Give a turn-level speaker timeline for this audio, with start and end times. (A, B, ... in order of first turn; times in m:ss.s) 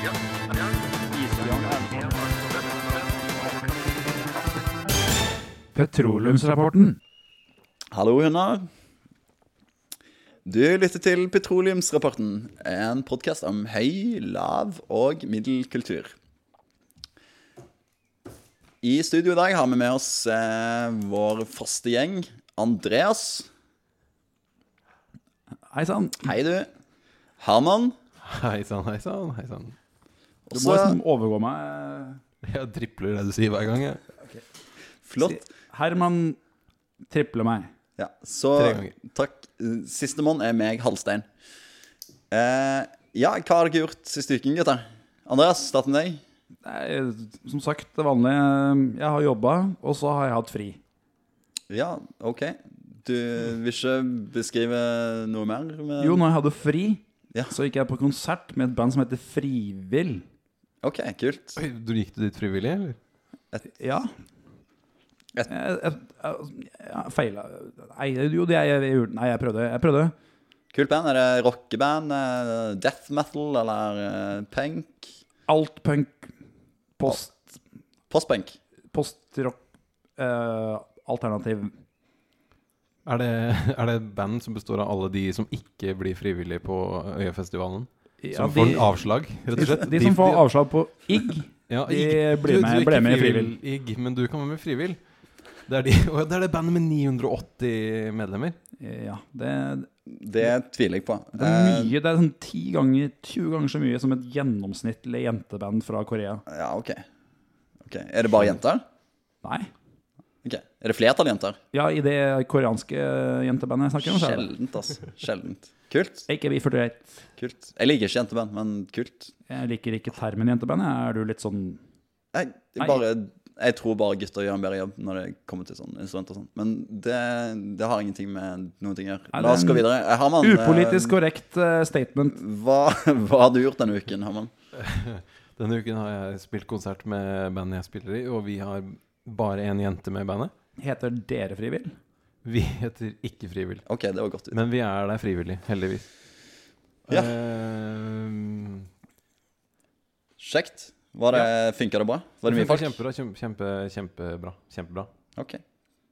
0:01.1-0:01.6 A
0:01.3-0:02.4 B
0:05.7-0:07.0 B
0:07.9-0:08.6 A
0:10.4-0:16.1 A
0:18.8-0:23.5 A
0:25.7-0:26.3 B
0:26.2-0:26.7 A
0:27.4-0:27.9 A
0:28.2-0:29.7 C
0:30.5-0:31.0 A
0:30.5-0:32.2 B
0:32.4-0:34.0 C
0:35.0-0:35.4 A
0:35.2-0:36.4 B
0:37.1-0:37.7 B
0:38.0-0:41.2 A
0:38.6-0:38.9 C
0:42.3-0:46.2 A
0:46.6-0:50.8 B
0:51.7-0:56.2 A
0:56.0-1:00.2 B
1:00.8-1:01.6 A
1:01.6-1:03.0 C
1:03.6-1:04.1 B
1:05.5-1:10.1 B
1:10.7-1:15.1 A
1:15.5-1:16.3 B
1:17.0-1:17.5 B
1:18.1-1:18.6 A
1:18.9-1:19.6 B
1:20.2-1:21.7 B
1:23.0-1:30.4 C
1:28.2-1:28.9 B
1:29.5-1:33.6 B
1:31.7-1:35.0 C
1:35.6-1:38.6 C
1:38.8-1:39.9 B
1:40.1-1:41.9 A
1:41.3-1:46.4 B
1:46.5-1:47.0 A
1:47.8-1:48.8 A
1:49.4-1:49.7 B
1:50.4-1:51.6 A
1:51.7-1:54.5 B
1:54.0-1:56.3 A
1:56.3-1:57.2 B
1:57.4-1:59.3 A
1:59.5-2:01.8 B
2:02.3-2:11.2 A
2:09.3-2:09.8 B
2:10.4-2:12.4 B
2:12.3-2:14.5 A
2:14.8-2:20.5 C
2:20.8-2:21.9 B
2:22.4-2:23.8 C
2:23.8-2:24.6 A
2:24.5-2:26.1 C
2:27.1-2:28.9 C
2:27.1-2:27.3 A
2:30.4-2:33.0 A
2:32.4-2:35.1 C